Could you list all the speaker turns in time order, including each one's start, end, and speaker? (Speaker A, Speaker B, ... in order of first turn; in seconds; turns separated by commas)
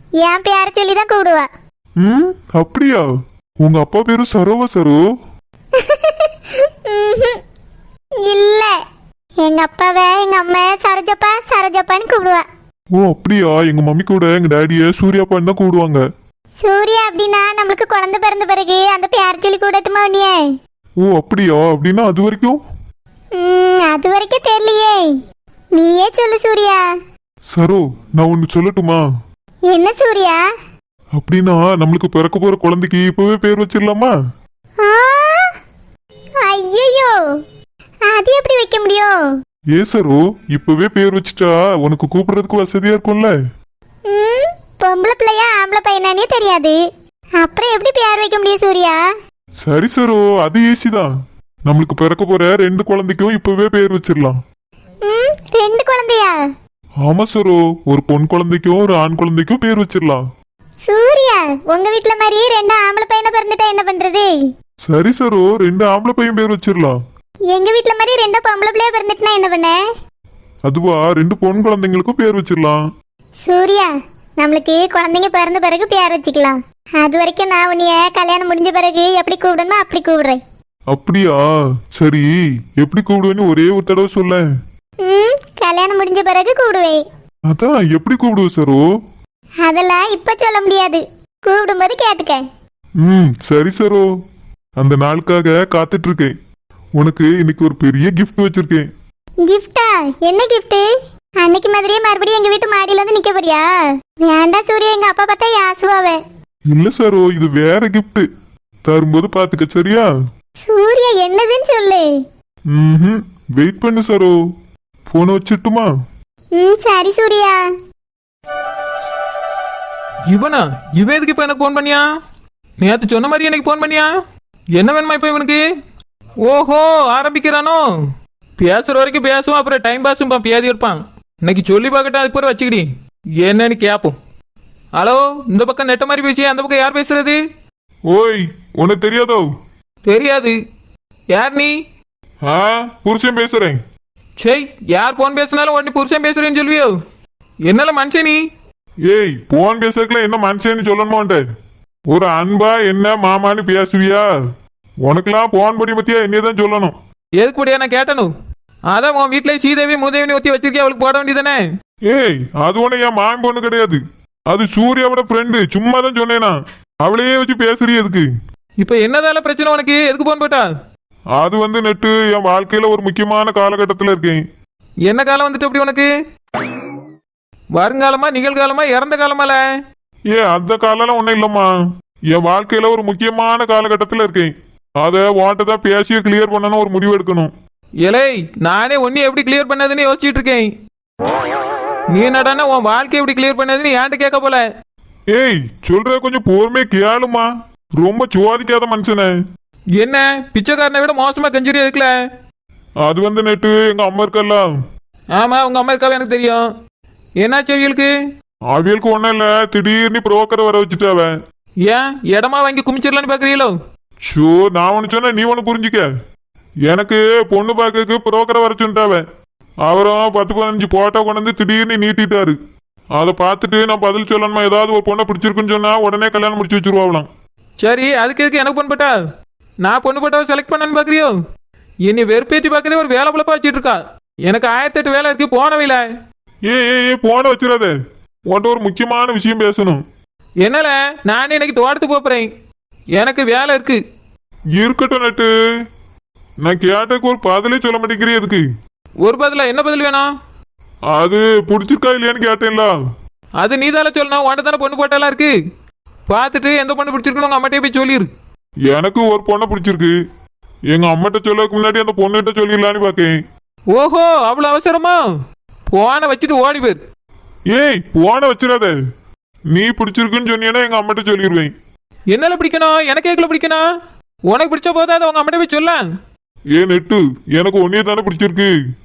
Speaker A: 0.2-1.5, Speaker B: 2.0-3.1, Speaker B: 3.6-5.0, Speaker A: 5.8-7.4, Speaker A: 8.2-8.7, Speaker A: 9.4-12.4, Speaker B: 12.9-16.0, Speaker A: 16.6-20.4, Speaker B: 21.0-22.6, Speaker A: 23.4-25.1, Speaker A: 25.8-26.8, Speaker B: 27.5-29.0, Speaker A: 29.7-30.4, Speaker B: 31.1-34.1, Speaker A: 34.8-35.5, Speaker A: 36.4-37.2, Speaker A: 38.1-39.2, Speaker B: 39.7-43.3, Speaker A: 44.1-46.8, Speaker A: 47.4-49.0, Speaker B: 49.6-51.1, Speaker B: 51.7-54.4, Speaker A: 55.0-56.4, Speaker B: 57.0-60.2, Speaker A: 60.9-64.3, Speaker B: 64.8-67.0, Speaker A: 67.5-69.8, Speaker B: 70.7-72.8, Speaker A: 73.4-80.4, Speaker B: 80.9-84.4, Speaker A: 85.0-87.0, Speaker B: 87.5-88.8, Speaker A: 89.6-92.4, Speaker B: 93.0-94.0, Speaker B: 94.8-96.3, Speaker B: 97.0-98.9, Speaker A: 99.5-100.9, Speaker A: 101.4-103.7, Speaker A: 104.2-106.2, Speaker B: 106.7-108.3, Speaker B: 108.9-110.1, Speaker A: 110.6-112.1, Speaker B: 112.7-114.3, Speaker B: 115.1-115.9, Speaker A: 116.6-117.6, Speaker C: 120.3-122.0, Speaker C: 122.8-124.1, Speaker C: 124.8-125.6, Speaker C: 126.4-127.8, Speaker C: 128.6-132.9, Speaker C: 133.4-134.2, Speaker C: 134.9-137.4, Speaker B: 138.1-139.5, Speaker C: 140.1-140.6, Speaker C: 141.3-141.8, Speaker B: 142.4-143.8, Speaker C: 144.4-147.0, Speaker C: 147.7-148.4, Speaker B: 149.1-151.4, Speaker B: 152.1-154.3, Speaker B: 155.0-156.9, Speaker C: 157.4-158.3, Speaker C: 158.9-161.6, Speaker B: 162.1-168.3, Speaker C: 168.8-170.7, Speaker B: 171.4-174.4, Speaker C: 175.1-176.1, Speaker C: 177.8-179.6, Speaker B: 180.3-181.7, Speaker B: 182.3-187.5, Speaker C: 188.0-190.7, Speaker C: 192.1-194.6, Speaker B: 195.3-199.4, Speaker C: 200.0-202.1, Speaker B: 203.0-204.7, Speaker C: 205.3-206.6, Speaker C: 207.4-208.1, Speaker B: 208.7-211.4, Speaker C: 211.8-213.7, Speaker B: 214.3-216.1, Speaker B: 216.9-219.2, Speaker B: 219.8-222.6, Speaker B: 223.2-227.3, Speaker C: 227.8-229.1, Speaker C: 229.8-231.3, Speaker C: 232.1-236.0, Speaker B: 236.7-237.9, Speaker B: 238.5-240.0, Speaker C: 240.6-242.5, Speaker C: 243.2-244.0, Speaker B: 244.8-245.5, Speaker B: 246.6-248.6, Speaker C: 249.2-250.3, Speaker B: 251.1-252.9, Speaker C: 253.6-255.6, Speaker C: 256.3-258.3, Speaker B: 258.9-260.1, Speaker B: 260.9-263.4, Speaker C: 263.9-265.2, Speaker C: 265.9-267.0, Speaker B: 267.7-268.9, Speaker B: 269.7-271.7, Speaker C: 272.3-273.8, Speaker C: 274.5-276.0, Speaker B: 276.8-278.7